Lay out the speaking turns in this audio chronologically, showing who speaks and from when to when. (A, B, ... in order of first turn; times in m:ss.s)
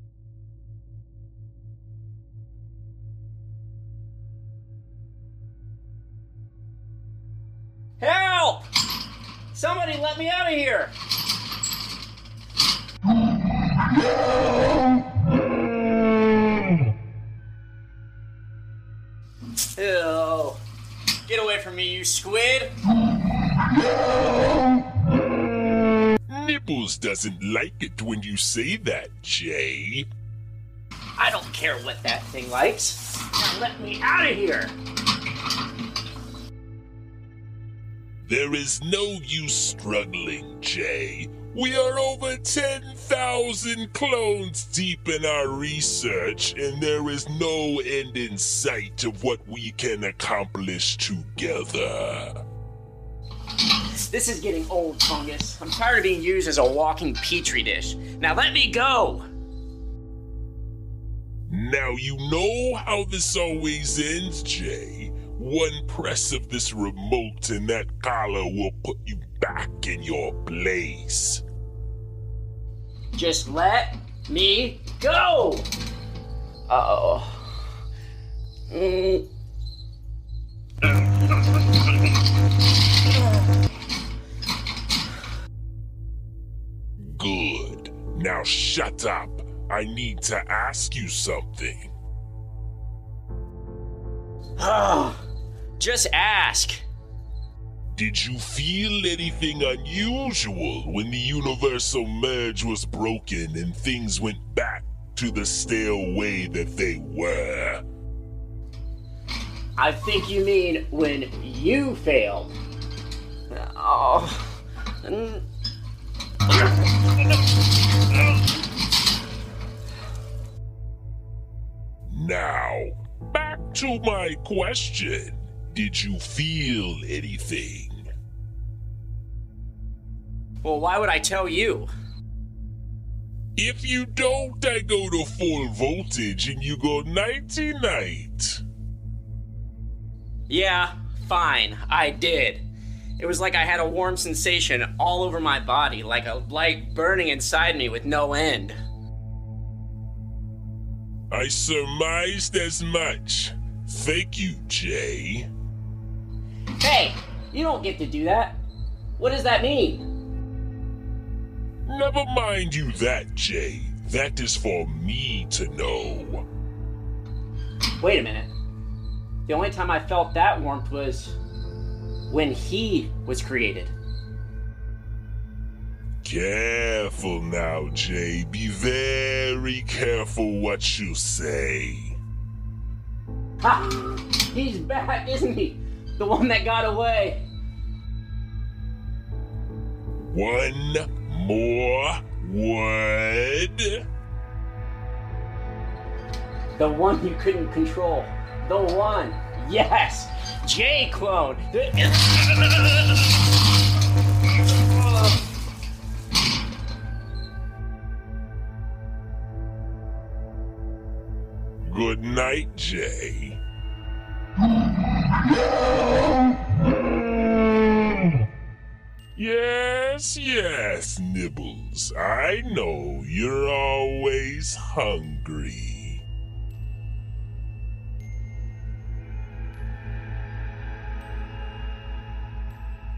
0:08.0-0:08.7 A
0:09.5-0:10.9 A
0:19.8-0:20.6 A
0:21.3-0:22.7 A
0:26.3-0:30.1 B
0:31.2-0:34.7 A
0:38.2-0:52.4 B
0:54.1-0:59.2 A
1:01.5-1:11.4 B
1:13.1-1:15.7 A
1:16.7-1:17.5 A
1:18.7-1:19.2 A
1:27.0-1:31.9 B
1:34.6-1:35.2 A
1:35.8-1:36.8 A
1:37.9-1:47.8 B
1:49.8-1:52.6 A
1:53.5-1:55.4 A
1:56.5-1:57.1 A
2:02.1-2:08.1 B
2:10.6-2:11.9 A
2:13.6-2:18.6 B
2:20.5-2:22.6 A
2:23.2-2:28.8 A
2:31.3-2:35.5 B
2:36.8-2:38.6 A
2:39.2-2:40.1 A
2:41.8-2:46.4 B
2:48.0-2:48.5 A
2:49.5-2:51.4 A
2:52.3-2:53.9 A
2:56.2-3:02.2 B
3:03.6-3:07.4 A
3:10.2-3:14.0 B
3:16.8-3:23.2 A
3:31.8-3:33.6 B
3:39.3-3:46.2 B